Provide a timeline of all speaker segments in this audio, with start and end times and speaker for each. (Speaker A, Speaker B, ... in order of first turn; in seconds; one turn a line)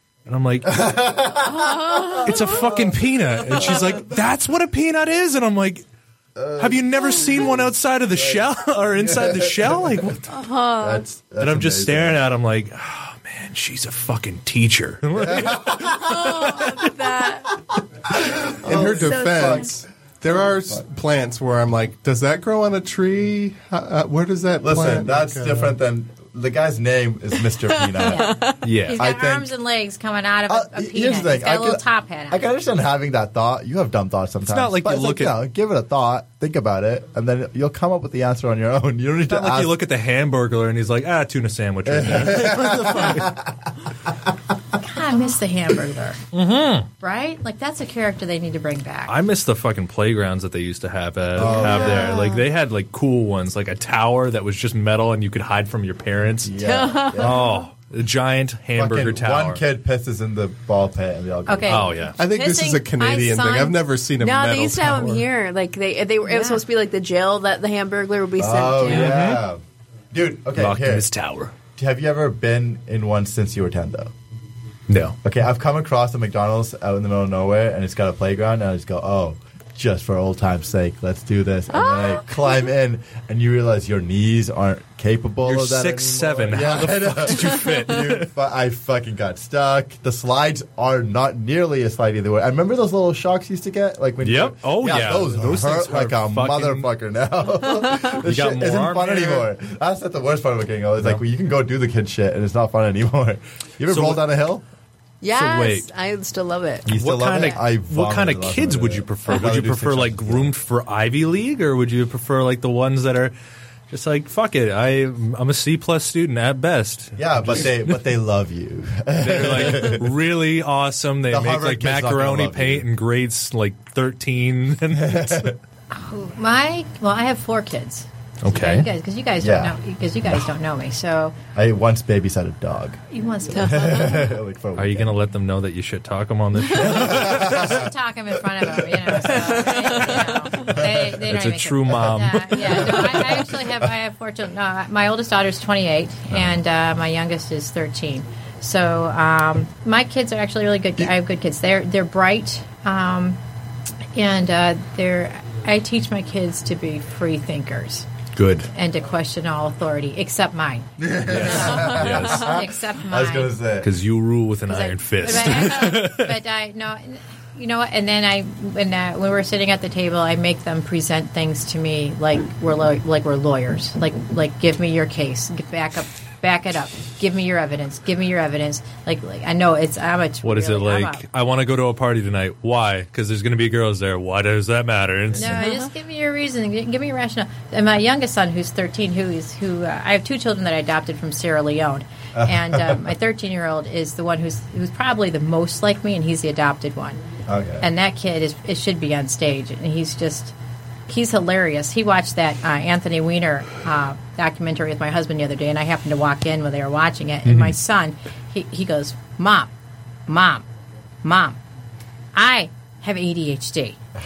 Speaker A: 0.2-0.8
Speaker B: 0.6-2.8
Speaker C: 1.5-2.3
Speaker A: 2.2-5.8
Speaker B: 6.3-7.5
Speaker A: 6.6-10.3
Speaker B: 8.1-10.0
Speaker C: 10.3-11.0
Speaker B: 10.8-12.2
Speaker A: 11.4-16.6
Speaker B: 15.4-15.8
Speaker C: 15.7-17.5
Speaker B: 18.1-19.7
Speaker D: 18.6-25.8
Speaker C: 18.7-19.7
Speaker B: 24.6-29.5
Speaker E: 28.0-32.5
Speaker C: 28.1-28.5
Speaker A: 28.6-29.0
Speaker B: 30.5-39.7
Speaker A: 34.4-35.4
Speaker A: 39.2-43.2
Speaker B: 41.8-43.7
Speaker E: 44.8-46.2
Speaker A: 46.3-46.9
Speaker E: 47.0-49.2
Speaker A: 49.0-56.6
Speaker B: 51.3-52.2
Speaker C: 51.5-52.4
Speaker B: 56.4-57.4
Speaker C: 56.6-57.6
Speaker A: 57.1-59.6
Speaker B: 58.7-61.9
Speaker E: 61.5-63.8
Speaker A: 61.6-62.1
Speaker D: 62.2-65.3
Speaker C: 64.2-69.2
Speaker E: 66.2-66.6
Speaker B: 68.4-69.6
Speaker A: 68.9-69.4
Speaker B: 70.1-71.1
Speaker A: 70.5-71.5
Speaker B: 71.8-74.1
Speaker A: 74.9-75.1
Speaker B: 75.2-104.6
Speaker C: 81.7-82.5
Speaker A: 85.4-88.3
Speaker A: 94.2-96.8
Speaker A: 98.0-99.5
Speaker A: 103.9-104.2
Speaker C: 105.2-106.9
Speaker A: 105.3-105.9
Speaker B: 106.8-110.5
Speaker A: 106.9-113.3
Speaker A: 113.9-118.0
Speaker B: 117.2-120.0
Speaker A: 119.2-125.5
Speaker B: 121.3-122.9
Speaker B: 124.9-125.5
Speaker E: 125.9-131.4
Speaker A: 128.4-128.9
Speaker B: 129.4-129.8
Speaker B: 131.5-133.0
Speaker E: 133.1-134.1
Speaker C: 133.5-134.3
Speaker B: 133.6-135.2
Speaker A: 134.8-137.4
Speaker B: 136.7-137.9
Speaker E: 137.3-153.4
Speaker B: 138.4-141.1
Speaker A: 141.2-142.9
Speaker B: 142.6-143.9
Speaker E: 154.1-158.1
Speaker A: 158.3-158.7
Speaker E: 158.7-163.6
Speaker B: 161.0-163.9
Speaker A: 161.3-162.5
Speaker A: 163.8-166.4
Speaker E: 164.7-181.2
Speaker A: 180.4-185.7
Speaker E: 185.3-197.2
Speaker C: 185.5-185.8
Speaker B: 192.3-193.1
Speaker B: 197.5-197.9
Speaker E: 197.8-200.5
Speaker E: 201.1-209.7
Speaker A: 207.4-207.7
Speaker E: 210.3-210.6
Speaker E: 211.2-211.6
Speaker E: 212.3-214.0